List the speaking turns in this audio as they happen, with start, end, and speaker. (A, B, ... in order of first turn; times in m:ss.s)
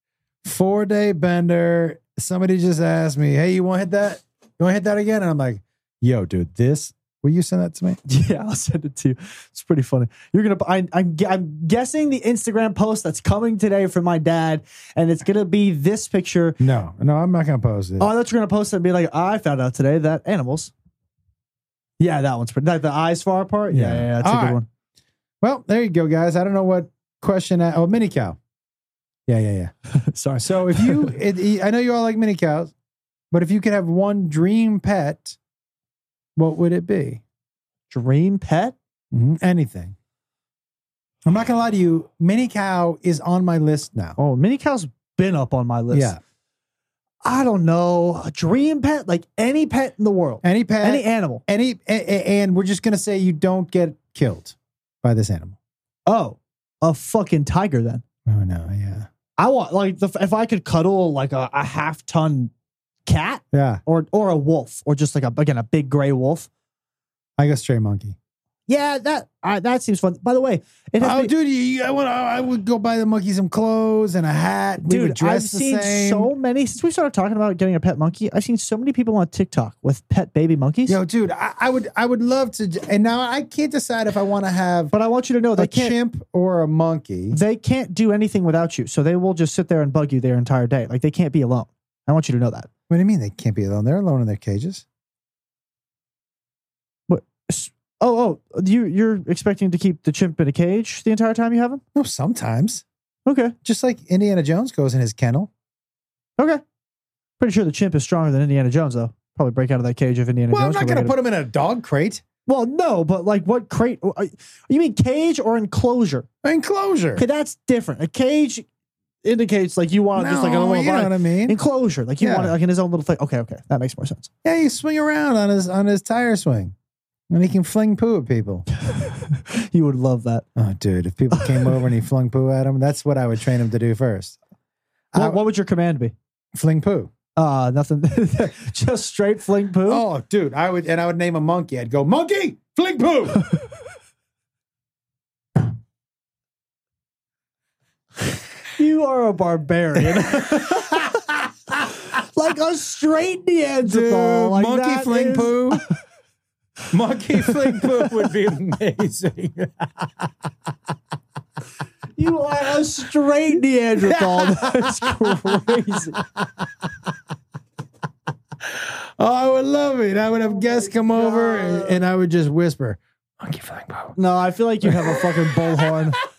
0:00.4-0:08.0 A
0:08.1-0:16.6 B
0:16.6-0:18.1 A
0:18.0-0:20.7 B
0:22.0-0:24.7 B
0:23.7-0:24.6 A
0:25.4-0:28.4 A
0:29.3-0:29.7 A
0:29.9-0:31.2 B
0:30.4-0:32.7 A
0:33.3-0:35.4 A
0:36.4-0:37.2 A
0:37.9-0:38.8 B
0:39.1-0:40.0 A
0:41.3-0:44.2 A
0:44.2-0:46.1 B
0:45.9-0:46.2 A
0:47.2-0:51.4 B
0:50.4-0:55.6 A
0:56.1-0:58.0 B
0:58.3-0:59.1 A
0:59.4-1:02.5 B
1:03.1-1:06.5 B
1:03.5-1:03.8 A
1:07.4-1:08.2 A
1:08.7-1:11.3 B
1:11.0-1:16.3 A
1:14.8-1:21.0 B
1:20.9-1:24.9 A
1:24.9-1:26.0 B
1:25.6-1:27.4 A
1:27.3-1:32.7 B
1:32.9-1:34.8 A
1:37.1-1:41.8 B
1:42.0-1:42.8 A
1:43.3-1:43.6 B
1:43.6-1:45.5 A
1:47.4-1:51.1 B
1:50.5-1:52.2 A
1:52.5-1:56.3 B
1:56.4-1:57.2 A
1:57.2-1:58.7 B
1:59.2-2:04.3 B
2:00.2-2:01.6 A
2:02.2-2:02.6 A
2:04.4-2:06.7 A
2:07.3-2:08.7 A
2:08.8-2:10.4 B
2:10.6-2:14.4 A
2:11.3-2:11.8 B
2:15.1-2:15.4 A
2:15.2-2:16.1 B
2:16.6-2:17.1 A
2:17.4-2:20.0 B
2:19.9-2:23.5 A
2:28.8-2:31.2 B
2:30.2-2:31.9 A
2:31.9-2:35.8 B
2:33.8-2:35.9 A
2:36.9-2:40.3 A
2:37.4-2:38.3 B
2:42.2-2:46.2 B
2:44.0-2:46.9 A
2:48.7-2:54.2 A
2:50.8-2:52.0 B
2:54.2-2:56.2 B
2:54.8-2:56.2 A